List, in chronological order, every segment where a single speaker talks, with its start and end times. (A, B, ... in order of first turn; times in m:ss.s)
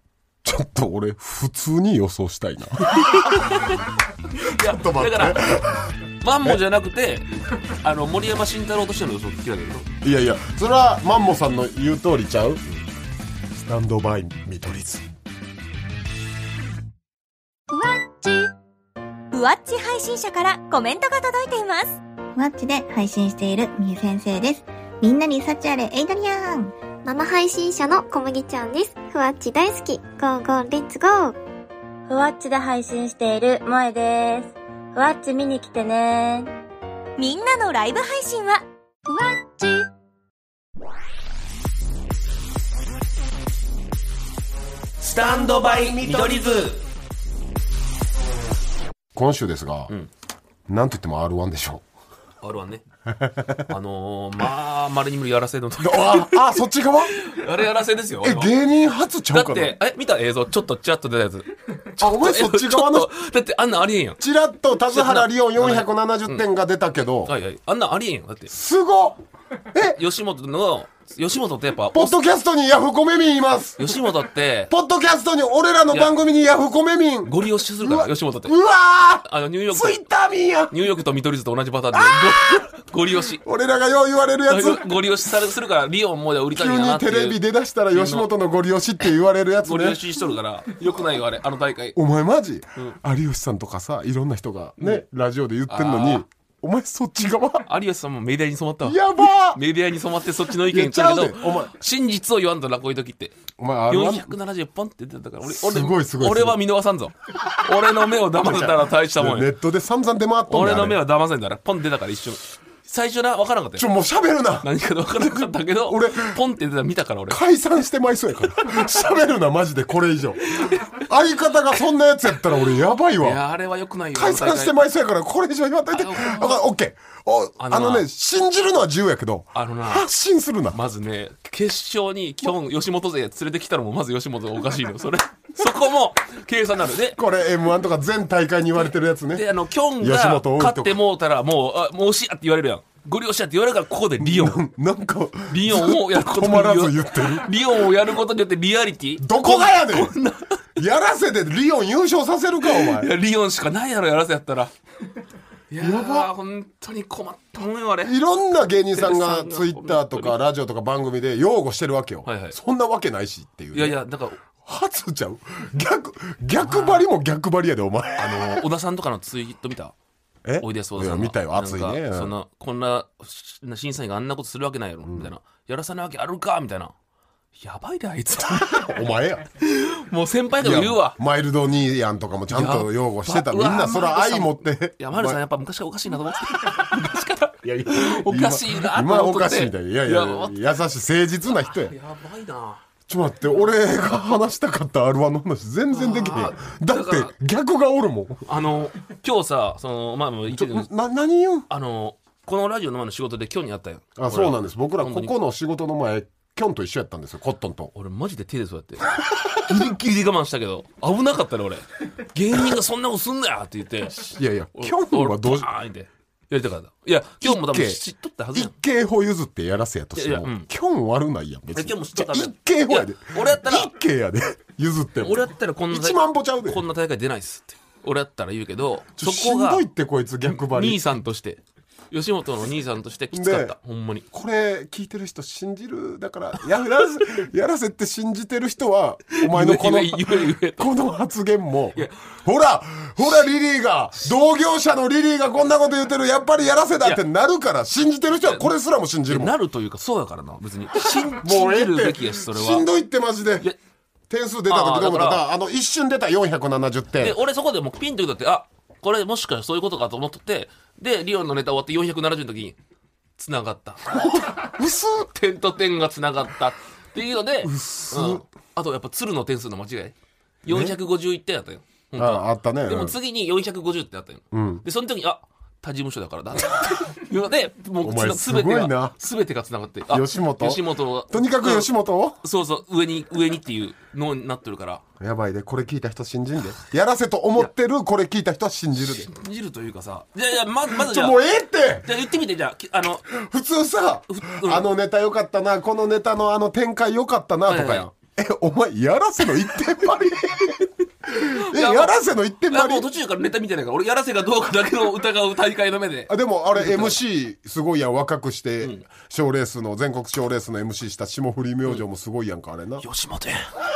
0:00.4-0:03.6 A
0:02.8-0:05.4 B
0:04.4-0:06.6 A
0:06.2-0:09.9 B
0:10.0-0:12.6 A
0:13.5-0:15.0 A
0:17.7-0:18.5 C
0:19.3-0:22.0 C
0:22.4-0:26.7 D
0:27.0-0:31.3 E
0:32.1-0:36.5 F
0:37.2-0:39.9 C
0:45.0-0:46.8 B
0:49.1-0:49.9 A
0:50.7-0:51.8 A
0:52.4-0:52.8 B
0:53.1-0:53.6 A
0:53.7-0:58.5 B
0:55.8-0:57.2 A
0:58.2-0:59.8 A
0:59.3-1:04.2 B
1:02.0-1:03.1 A
1:04.2-1:07.3 A
1:04.9-1:06.4 B
1:07.2-1:08.5 B
1:08.5-1:09.2 A
1:09.7-1:10.0 A
1:09.8-1:12.2 B
1:11.9-1:14.1 A
1:13.8-1:14.7 B
1:14.7-1:20.8 A
1:17.2-1:18.6 B
1:19.2-1:20.0 B
1:20.7-1:23.4 B
1:21.9-1:22.7 A
1:23.4-1:24.9 A
1:24.5-1:28.3 B
1:26.5-1:30.0 A
1:29.6-1:32.0 B
1:31.9-1:37.7 A
1:34.8-1:35.0 B
1:35.7-1:36.2 B
1:37.6-1:43.4 B
1:38.8-1:39.6 A
1:40.6-1:41.7 A
1:43.6-1:44.3 A
1:43.9-1:49.5 B
1:45.4-1:46.6 A
1:48.4-1:51.0 A
1:50.5-1:53.9 B
1:53.8-1:54.7 A
1:54.6-1:57.4 B
1:55.8-1:56.4 A
1:57.3-2:03.4 A
2:00.5-2:01.1 B
2:03.2-2:04.8 B
2:04.1-2:10.8 A
2:05.9-2:06.6 B
2:07.6-2:08.0 B
2:09.5-2:10.1 B
2:10.7-2:17.2 B
2:17.1-2:21.0 A
2:19.3-2:24.6 B
2:24.2-2:27.6 A
2:25.5-2:30.7 B
2:29.2-2:30.2 A
2:30.8-2:33.1 A
2:32.6-2:34.7 B
2:35.7-2:38.2 B
2:35.8-2:36.3 A
2:38.0-2:48.6 A
2:38.9-2:40.4 B
2:42.2-2:42.6 B
2:43.7-2:44.4 B
2:46.6-2:47.0 B
2:48.2-2:49.9 B
2:50.4-2:52.3 A
2:50.6-2:56.9 B
2:55.0-2:55.3 A
2:57.6-2:59.0 B
2:58.4-2:59.5 A
2:59.6-3:01.2 B
3:00.6-3:05.4 A
3:02.5-3:10.6 B
3:07.6-3:11.9 A
3:11.5-3:12.8 B
3:13.1-3:18.4 A
3:15.9-3:17.3 B
3:18.4-3:20.9 B
3:20.5-3:21.7 A
3:21.7-3:25.3 B
3:24.2-3:27.9 A
3:27.9-3:38.7 B
3:29.7-3:29.9 A
3:34.1-3:35.7 A
3:37.4-3:46.8 A
3:40.2-3:40.7 B
3:41.7-3:43.9 B
3:45.2-3:49.8 B
3:49.2-3:51.0 A
3:50.4-3:54.2 B
3:53.3-3:53.8 A
3:54.3-4:09.5 A
3:59.3-4:01.0 B
4:08.4-4:08.7 B
4:09.3-4:12.9 B
4:11.0-4:13.7 A
4:14.3-4:17.4 A
4:14.7-4:15.4 B
4:17.2-4:22.8 B
4:23.4-4:24.7 B
4:24.1-4:25.3 A
4:25.3-4:41.9 B
4:27.6-4:28.4 A
4:30.6-4:31.0 A
4:32.2-4:33.2 A
4:34.5-4:34.8 A
4:38.0-4:39.2 A
4:40.1-4:42.4 A
4:42.4-4:45.0 B
4:45.2-4:49.3 A
4:49.0-4:51.4 B
4:50.9-4:52.2 A
4:52.0-4:53.3 B
4:53.3-5:03.1 A
4:54.3-4:54.9 B
4:57.7-4:58.1 B
5:01.3-5:02.2 B
5:02.7-5:07.2 B
5:06.3-5:13.0 A
5:13.0-5:13.7 B